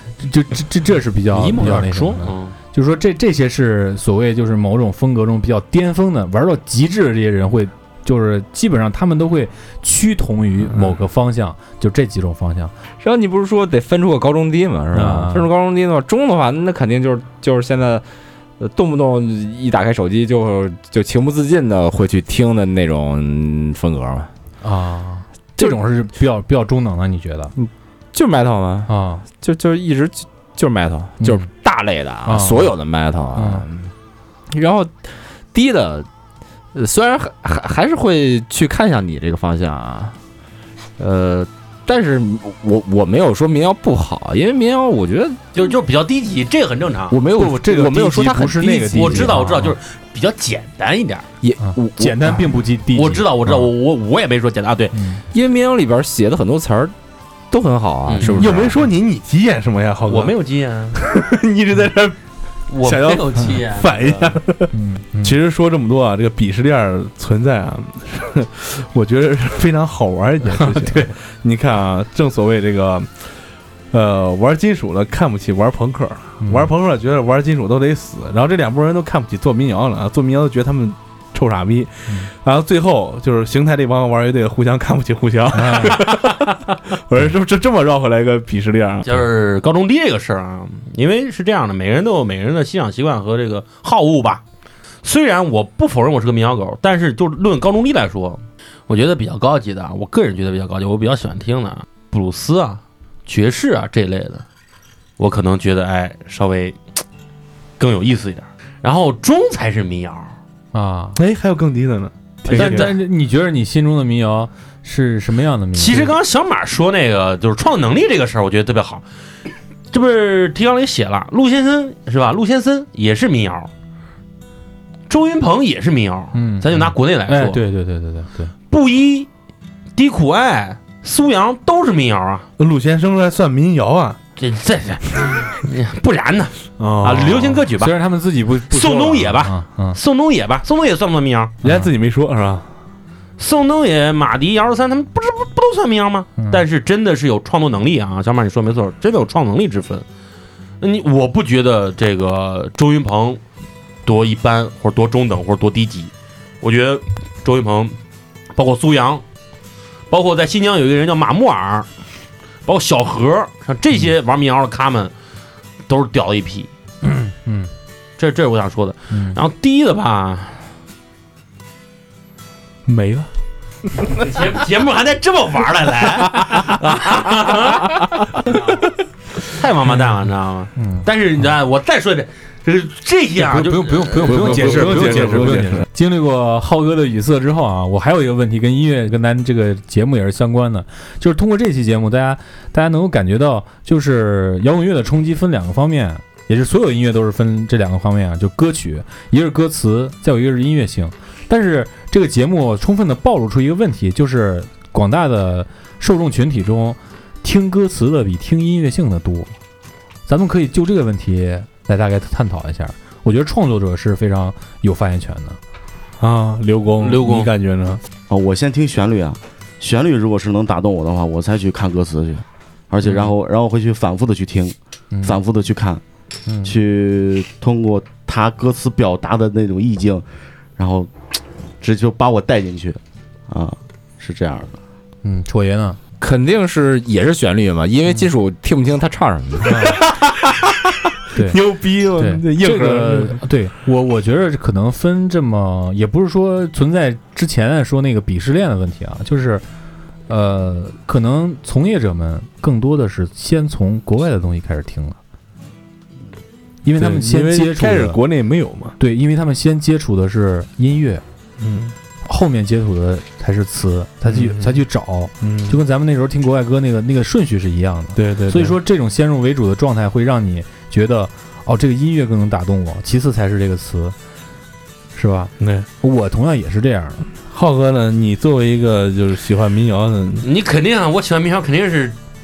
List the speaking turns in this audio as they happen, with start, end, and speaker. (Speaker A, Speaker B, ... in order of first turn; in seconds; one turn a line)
Speaker A: 0.2-12.7
Speaker B: 1.4-2.5
Speaker C: 13.0-18.0
Speaker A: 14.9-15.5
Speaker C: 18.6-24.3
Speaker A: 24.6-27.5
Speaker C: 27.5-33.9
Speaker A: 28.9-29.2
Speaker A: 31.2-31.5
Speaker A: 32.2-32.8
Speaker A: 33.3-33.6
Speaker C: 34.5-36.1
Speaker C: 36.7-40.1
Speaker C: 41.0-45.4
Speaker B: 45.5-47.2
Speaker C: 47.1-49.4
Speaker A: 47.3-49.7
Speaker B: 49.0-51.3
Speaker C: 51.4-52.4
Speaker A: 51.6-53.7
Speaker B: 52.9-55.0
Speaker A: 54.9-55.2
Speaker C: 55.3-56.9
Speaker C: 57.5-58.8
Speaker B: 58.1-58.4
Speaker D: 58.4-60.3
Speaker B: 60.1-61.0
Speaker D: 61.0-62.2
Speaker B: 62.7-64.4
Speaker D: 62.8-73.3
Speaker A: 64.7-65.4
Speaker D: 73.9-89.2
Speaker A: 76.4-76.7
Speaker A: 85.5-86.0
Speaker B: 89.0-94.4
Speaker B: 95.0-104.4
Speaker B: 105.2-106.8
Speaker B: 107.8-110.3
Speaker A: 110.7-111.2
Speaker D: 111.2-112.9
Speaker B: 112.5-113.0
Speaker A: 112.5-116.2
Speaker B: 115.7-119.0
Speaker B: 119.9-123.7
Speaker B: 125.1-127.6
Speaker A: 126.3-128.5
Speaker B: 128.7-129.3
Speaker B: 129.9-132.5
Speaker D: 132.6-134.2
Speaker B: 134.4-138.0
Speaker D: 136.8-137.6
Speaker A: 137.8-140.0
Speaker B: 138.7-141.6
Speaker D: 141.6-142.7
Speaker A: 141.6-141.9
Speaker B: 143.4-150.0
Speaker A: 146.4-146.6
Speaker B: 150.8-153.4
Speaker B: 154.0-158.0
Speaker B: 158.5-159.2
Speaker B: 160.1-161.9
Speaker B: 162.7-165.1
Speaker B: 165.9-166.7
Speaker A: 167.2-167.7
Speaker B: 168.2-170.7
Speaker A: 169.1-169.4
Speaker D: 172.8-173.3
Speaker B: 174.2-178.9
Speaker B: 179.4-185.3
Speaker A: 180.8-181.1
Speaker A: 183.4-209.5
Speaker D: 184.2-185.9
Speaker A: 210.2-215.6
Speaker D: 216.2-218.0
Speaker B: 217.0-217.5
Speaker E: 218.3-226.0
Speaker A: 225.1-225.4
Speaker A: 226.5-226.7
Speaker E: 226.6-230.2
Speaker E: 230.8-234.8
Speaker A: 235.2-236.0
Speaker C: 236.2-239.9
Speaker A: 239.7-240.0
Speaker A: 241.3-241.6
Speaker D: 241.4-243.4
Speaker A: 242.2-249.6
Speaker A: 250.3-255.2
Speaker A: 256.8-258.2
Speaker D: 256.9-258.9
Speaker A: 259.0-261.2
Speaker D: 261.6-261.9
Speaker A: 262.2-274.1
Speaker D: 264.3-264.8
Speaker D: 265.4-265.8
Speaker D: 268.1-268.8
Speaker A: 275.1-277.2
Speaker D: 275.6-275.9
Speaker D: 277.5-280.5
Speaker B: 280.4-282.2